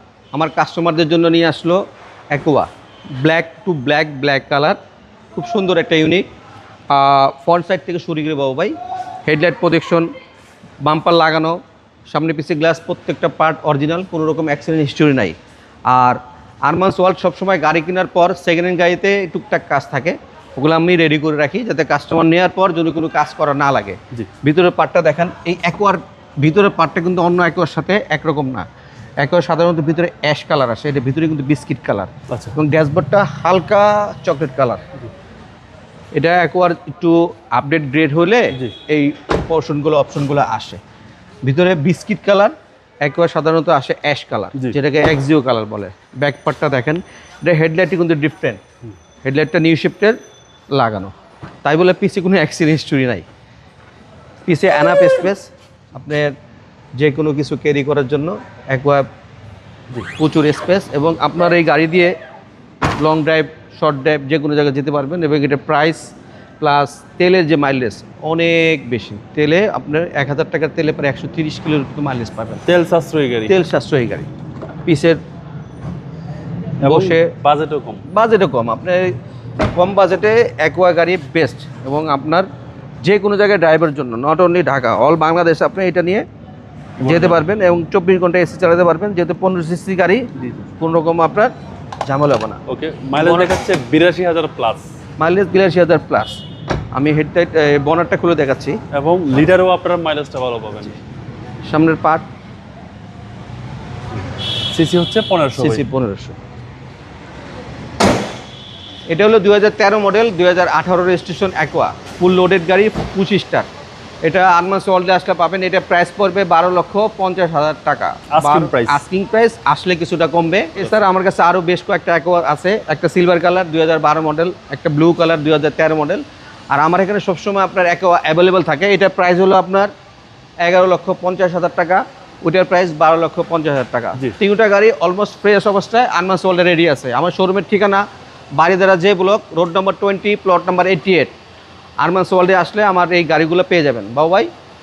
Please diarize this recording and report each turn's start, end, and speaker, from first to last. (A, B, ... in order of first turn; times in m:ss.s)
0:00.3-0:04.8 A
0:05.4-0:06.2 A
0:06.9-0:10.1 A
0:10.8-0:11.6 A
0:12.1-0:15.4 A
0:15.9-0:28.7 A
0:29.2-0:34.8 A
0:36.2-0:40.8 A
0:41.4-0:48.6 A
0:49.2-0:50.2 A
0:50.7-0:51.1 A
0:51.6-0:53.2 A
0:54.5-0:56.3 A
0:57.0-0:59.1 A
1:00.1-1:02.2 A
1:03.0-1:12.6 A
1:12.7-1:13.6 B
1:13.5-1:14.3 A
1:14.9-1:15.2 A
1:16.8-1:18.0 B
1:16.8-1:17.3 A
1:18.1-1:19.2 A
1:19.7-1:22.5 A
1:23.0-1:26.3 A
1:27.0-1:27.4 B
1:27.0-1:30.3 A
1:30.4-1:30.6 B
1:30.8-1:31.5 A
1:32.1-1:32.6 A
1:32.7-1:34.9 B
1:33.2-1:33.5 A
1:35.2-1:36.4 A
1:36.9-1:38.8 A
1:38.9-1:41.0 B
1:41.7-1:42.2 A
1:44.7-1:45.8 B
1:45.6-1:46.4 A
1:49.1-1:53.7 A
1:54.2-2:09.9 A
1:58.3-1:59.0 B
2:10.6-2:18.0 A
2:18.6-2:21.4 A
2:22.0-2:24.5 A